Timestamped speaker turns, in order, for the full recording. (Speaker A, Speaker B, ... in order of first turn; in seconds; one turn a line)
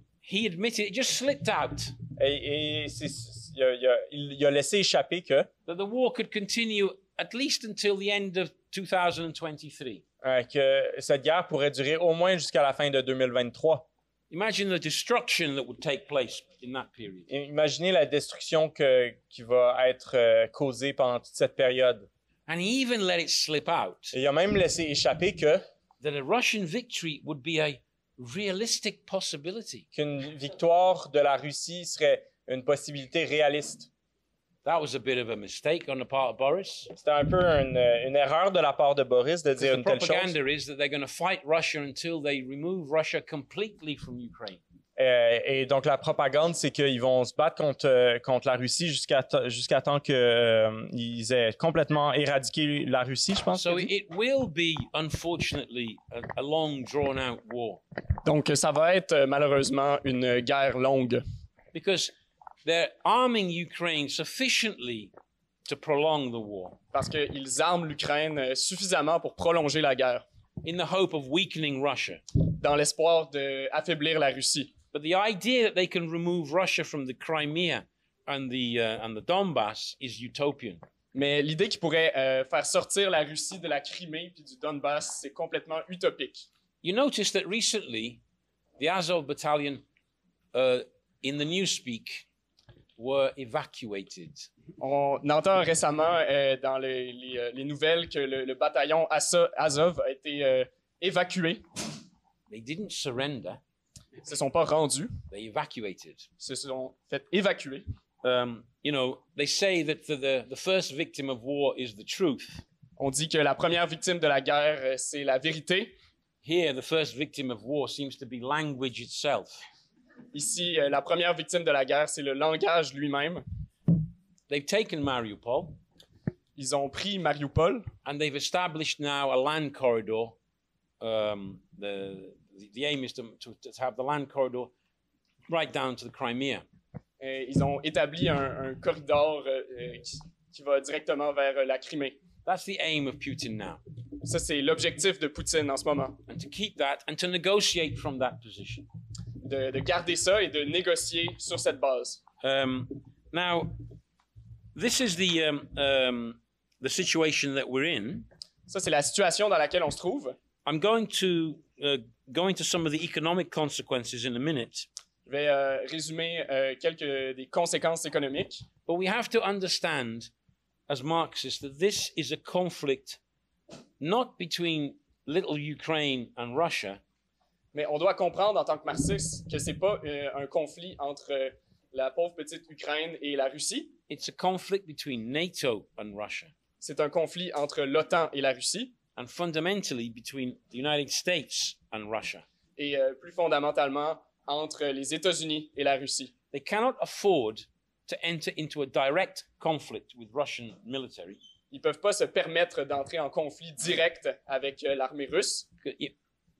Speaker A: 0.2-1.9
Speaker B: 2.2-5.5
Speaker A: 5.7-10.0
Speaker B: 10.2-13.9
Speaker A: 14.3-17.3
Speaker B: 17.3-22.1
Speaker A: 22.5-24.1
Speaker B: 24.1-25.6
Speaker A: 26.0-29.9
Speaker B: 29.9-33.9
Speaker A: 34.6-36.9
Speaker B: 36.9-40.3
Speaker A: 39.6-44.6
Speaker B: 45.0-53.9
Speaker A: 53.5-57.8
Speaker C: 58.2-61.2
Speaker A: 61.7-62.1
Speaker A: 62.6-65.1
Speaker A: 65.7-66.8
Speaker C: 66.9-70.2
Speaker A: 70.6-72.2
Speaker C: 72.6-74.7
Speaker A: 74.9-80.8
Speaker C: 81.1-86.4
Speaker A: 86.8-88.2
Speaker A: 88.8-89.8
Speaker A: 90.5-92.2
Speaker A: 93.0-94.5
Speaker C: 94.8-101.6
Speaker A: 102.5-103.6
Speaker C: 104.2-105.1
Speaker A: 105.3-106.3
Speaker C: 106.4-107.8
Speaker A: 108.2-112.6
Speaker C: 113.0-115.9
Speaker A: 116.4-119.6
Speaker C: 120.3-123.4
Speaker A: 124.5-125.8
Speaker C: 126.5-127.9
Speaker A: 128.0-130.3
Speaker A: 131.0-134.7
Speaker A: 135.5-136.6
Speaker C: 137.2-142.2
Speaker A: 142.4-143.8
Speaker C: 144.2-146.2
Speaker A: 146.3-148.9
Speaker C: 149.4-152.2
Speaker A: 152.4-153.8
Speaker A: 154.7-158.3
Speaker C: 158.7-160.4
Speaker A: 160.6-164.9
Speaker C: 165.3-168.6
Speaker A: 168.8-170.3
Speaker A: 170.9-173.2
Speaker A: 174.0-177.0
Speaker C: 177.7-183.9
Speaker A: 184.1-186.5
Speaker C: 186.8-188.9
Speaker A: 189.1-192.4
Speaker C: 192.8-196.3
Speaker A: 196.5-201.4
Speaker C: 201.7-205.7
Speaker A: 205.8-206.1